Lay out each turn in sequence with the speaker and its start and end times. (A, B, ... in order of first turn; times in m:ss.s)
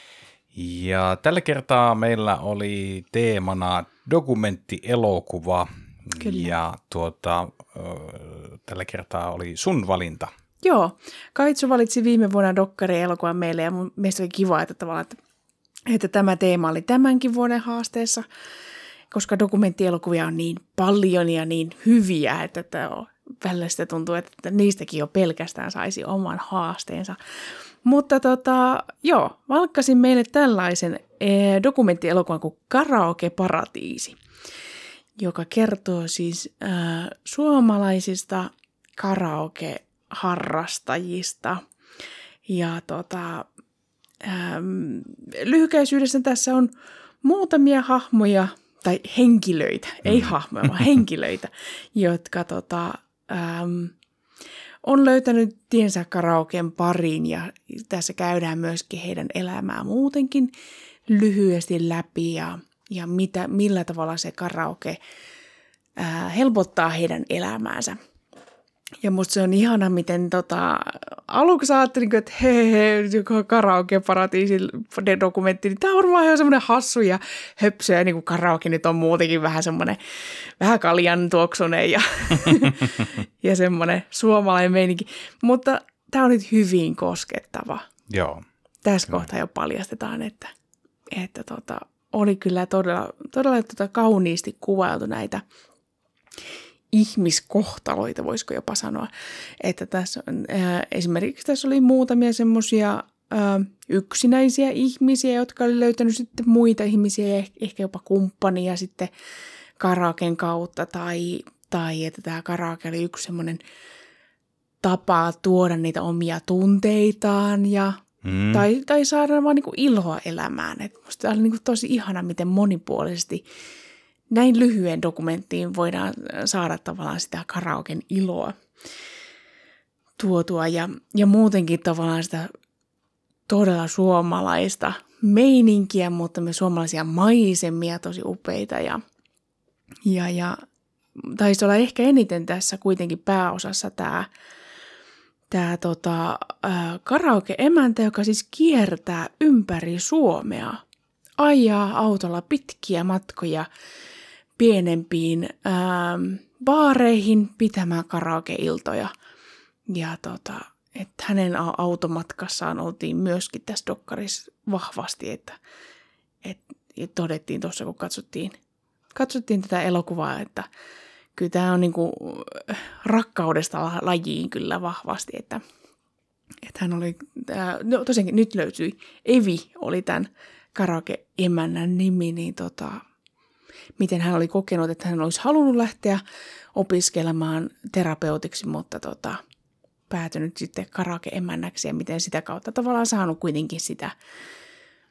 0:00.5-0:10.3 A
0:06.2-0:06.6 B
0:10.6-0:15.2 B
0:15.9-0:18.2 B
0:19.1-0:27.2 B
0:27.8-0:34.2 B
0:35.2-0:41.6 B
0:42.5-0:43.5 B
0:44.2-0:46.7 B
0:47.2-0:53.9 B
0:50.0-0:50.4 A
0:54.8-1:00.5 B
1:01.1-1:05.0 B
1:06.0-1:08.0 B
1:09.0-1:20.0 B
1:20.6-1:27.9 B
1:28.1-1:28.4 A
1:28.8-1:30.5 B
1:31.1-1:35.4 B
1:36.9-1:49.1 B
1:49.8-1:53.6 B
1:54.8-2:03.4 B
1:58.2-1:58.7 A
2:04.3-2:08.6 B
2:10.2-2:12.5 B
2:13.5-2:19.0 B
2:20.1-2:20.6 B
2:21.2-2:24.3 B
2:25.5-2:30.8 B
2:31.4-2:33.7 B
2:34.6-2:39.1 B
2:39.9-2:45.6 B
2:46.4-2:48.6 B
2:49.2-2:50.7 B
2:51.4-2:55.6 B
2:56.7-3:03.0 B
3:04.0-3:06.2 B
3:06.8-3:09.4 B
3:10.1-3:14.1 B